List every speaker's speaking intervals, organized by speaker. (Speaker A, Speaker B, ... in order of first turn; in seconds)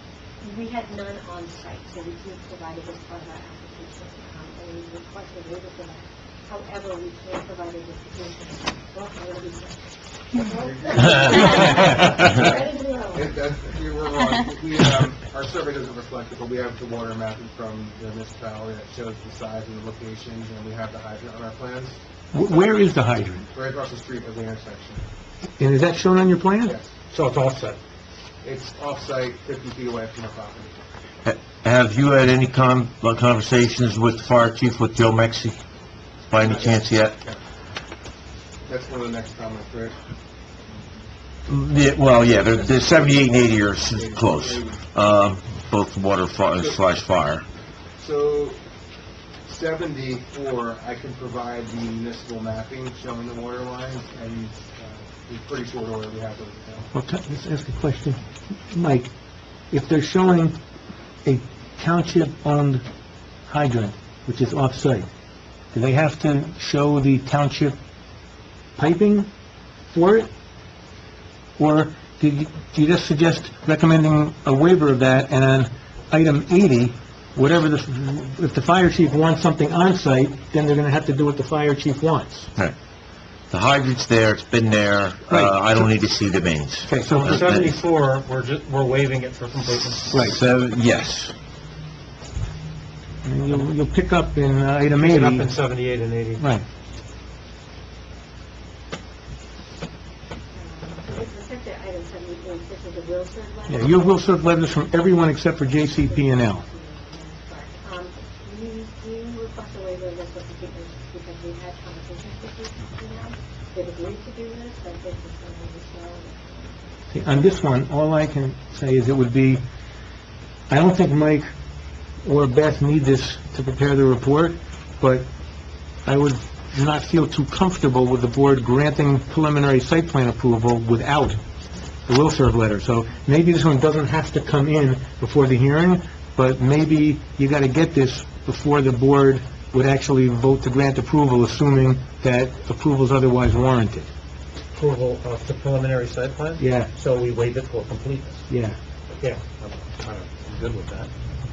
Speaker A: 0.4-13.4, 100.5-104.4, 105.9-117.5
Speaker B: 10.5-12.5, 13.1-22.0, 23.5-25.1, 28.4-30.8, 36.4-37.4, 38.7-40.0, 42.1-44.9, 48.0-48.6, 49.5-56.9
Speaker C: 22.3-23.5, 25.6-26.8, 56.9-59.1, 59.7-60.6, 61.2-62.8, 63.5-65.1, 65.7-67.8, 68.8-69.3, 69.9-70.3, 71.6-82.5, 85.3-85.7, 86.9-87.6, 90.1-90.4, 93.2-95.5, 96.4-96.7, 103.7-106.6, 117.1-119.6, 120.7-121.5, 122.2-125.3, 126.0-131.4, 132.1-144.1, 146.6-146.9, 148.5-148.8
Speaker D: 27.1-27.8, 87.1-90.3, 95.0-96.4, 144.7-148.4, 149.2-151.1
Speaker E: 31.2-35.6, 36.3-37.2, 41.5-47.5, 83.5-87.7, 90.2-91.3